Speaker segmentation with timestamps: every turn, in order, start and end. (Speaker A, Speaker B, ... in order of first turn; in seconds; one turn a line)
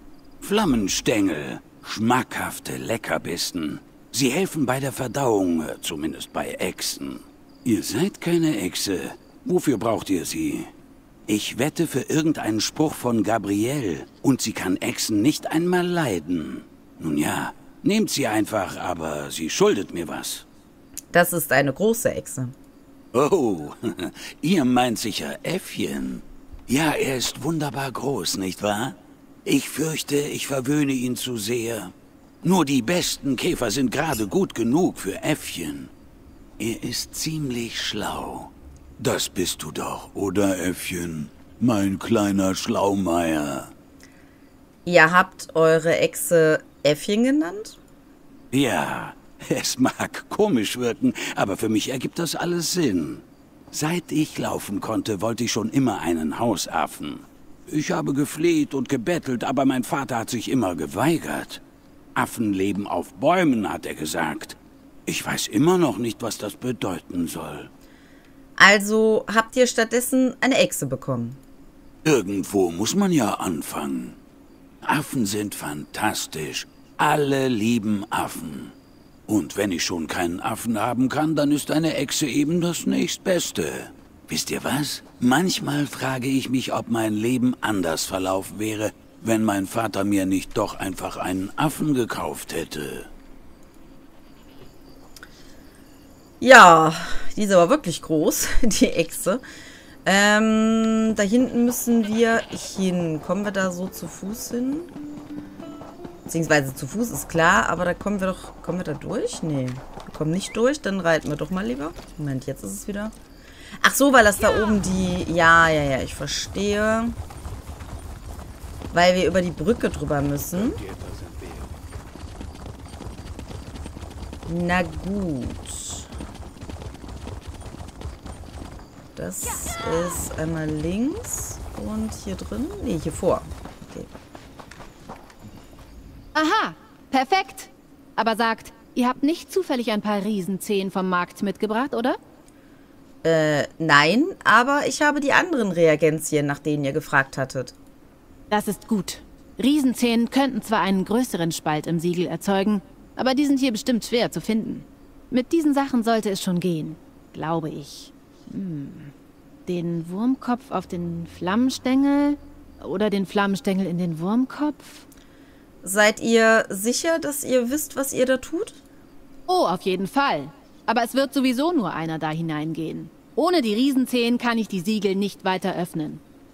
Speaker A: 0.4-10.7
Speaker A: 11.3-20.4
Speaker B: 21.1-22.5
Speaker A: 23.1-35.9
Speaker A: 36.6-43.7
Speaker B: 44.9-47.8
Speaker A: 48.5-61.6
Speaker A: 62.1-67.7
Speaker B: 68.6-71.4
Speaker A: 72.0-74.2
Speaker A: 74.8-78.7
Speaker A: 79.3-93.1
Speaker B: 96.4-99.4
Speaker B: 100.0-104.9
Speaker B: 106.3-113.1
Speaker B: 113.8-117.1
Speaker B: 118.9-120.8
Speaker A: 120.9-121.6
Speaker B: 124.5-126.1
Speaker B: 129.2-134.1
Speaker C: 136.3-142.2
Speaker B: 143.2-147.8
Speaker C: 148.5-159.1
Speaker C: 159.7-165.1
Speaker B: 165.8-168.8
Speaker C: 169.5-176.2